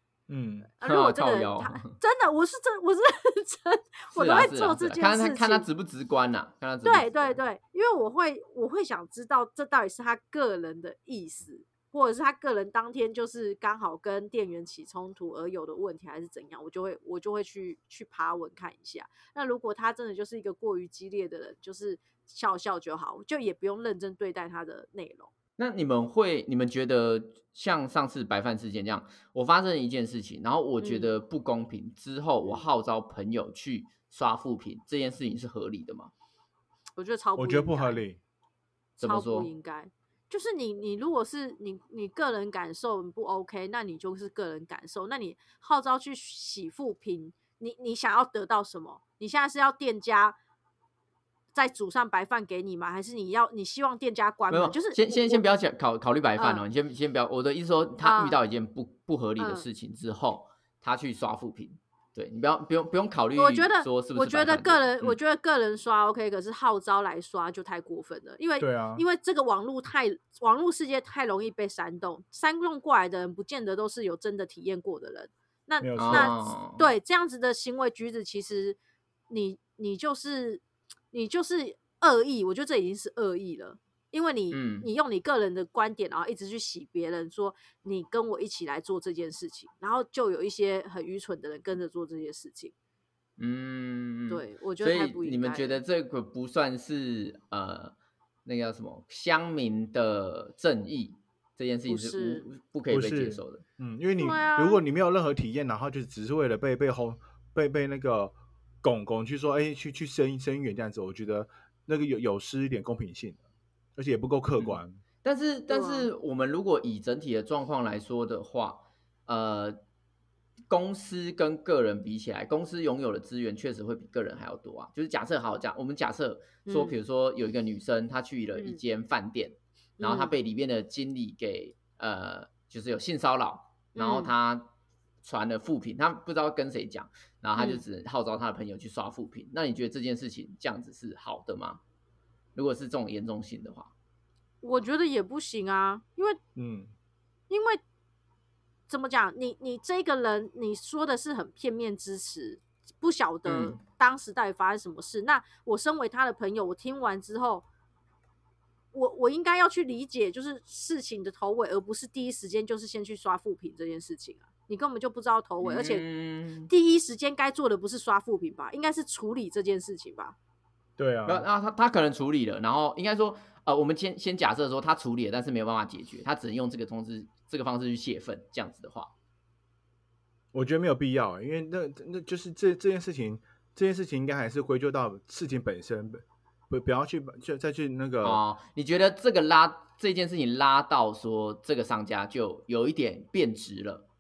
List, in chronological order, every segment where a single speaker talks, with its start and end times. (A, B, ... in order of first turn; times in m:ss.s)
0:00.3-0:00.7 A
0:00.8-0:05.7 B
0:00.8-0:01.9 C
0:04.1-0:07.4 C
0:06.8-0:25.3 B
0:25.6-0:36.1 C
0:30.8-0:31.1 B
0:32.4-0:32.7 B
0:37.0-0:38.0 B
0:37.4-0:38.2 A
0:39.0-0:50.4 B
0:39.0-0:39.5 C
0:51.5-0:55.4 B
0:54.5-1:05.2 C
0:56.4-0:56.6 B
0:58.0-0:58.4 B
0:59.4-0:59.7 B
1:03.4-1:18.8 B
1:08.6-1:09.0 A
1:15.8-1:16.3 A
1:16.0-1:16.8 C
1:19.3-1:32.7 B
1:24.5-1:24.9 C
1:33.4-1:38.0 C
1:34.3-1:35.8 B
1:38.5-1:43.6 C
1:41.9-1:42.4 B
1:42.9-1:53.4 A
1:44.2-1:44.8 B
1:54.0-1:55.0 A
1:54.6-1:59.8 C
1:55.7-1:56.1 B
2:00.7-2:14.7 C
2:06.7-2:07.0 B
2:10.0-2:10.4 B
2:14.0-2:14.3 B
2:15.2-2:21.8 C
2:17.6-2:17.8 B
2:22.6-2:23.9 C
2:24.6-2:26.4 B
2:26.6-2:26.9 A
2:27.5-2:27.8 B
2:28.9-2:37.6 B
2:33.5-2:33.8 C
2:38.9-2:46.0 B
2:45.6-2:46.7 C
2:46.7-2:50.4 B
2:51.0-2:51.5 A
2:51.3-2:59.1 C
3:00.5-3:08.4 A
3:08.2-3:14.1 C